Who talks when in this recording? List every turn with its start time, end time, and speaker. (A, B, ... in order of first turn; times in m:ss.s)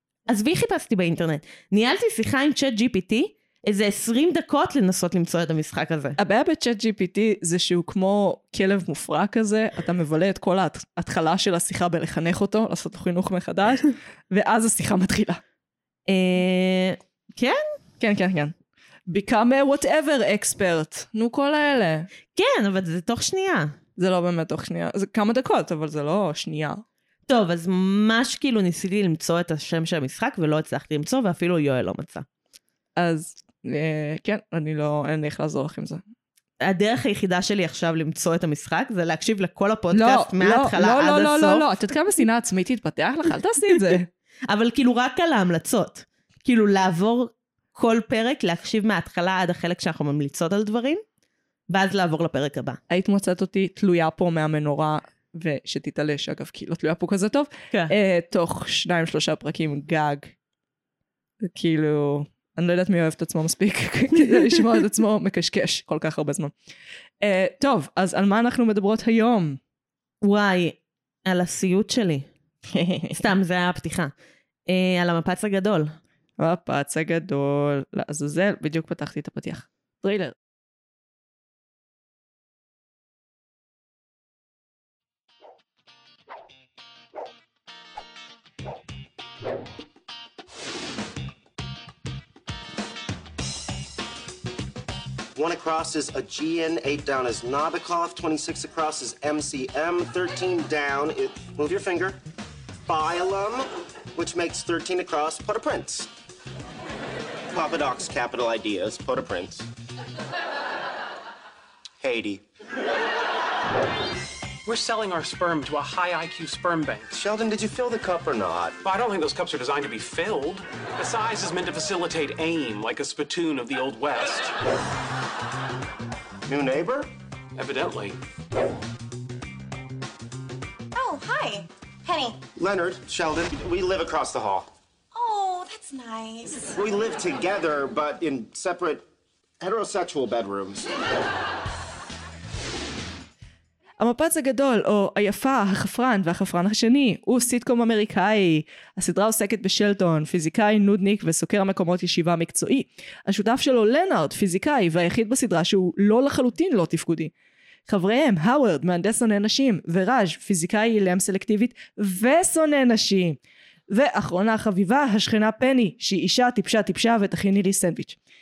0:00.3-0:06.2 A
0:06.2-0:15.4 B
0:16.1-0:17.6 A
0:18.0-0:18.6 B
0:19.1-0:22.1 B
0:22.3-0:23.8 A
0:24.0-0:26.8 B
0:27.3-0:32.3 A
0:33.0-0:36.0 B
0:36.6-0:41.7 A
0:39.9-0:44.1 B
0:44.5-0:51.0 A
0:51.7-0:52.8 A
0:52.9-1:00.3 B
1:01.4-1:06.5 B
1:07.2-1:09.6 B
1:10.2-1:12.3 A
1:12.7-1:13.2 B
1:13.1-1:14.1 A
1:14.7-1:16.0 A
1:16.4-1:20.4 B
1:35.4-1:42.2 C
1:42.9-1:46.1 C
1:47.5-1:49.7 C
1:52.0-1:52.4 C
1:54.6-1:57.1 D
1:57.1-1:58.8 C
1:58.8-2:04.6 D
2:06.5-2:07.1 C
2:07.6-2:08.2 D
2:11.0-2:12.4 E
2:12.6-2:14.7 C
2:15.1-2:16.7 E
2:16.8-2:19.0 C
2:19.6-2:20.8 C
2:24.0-2:37.3 B
2:37.9-2:48.2 B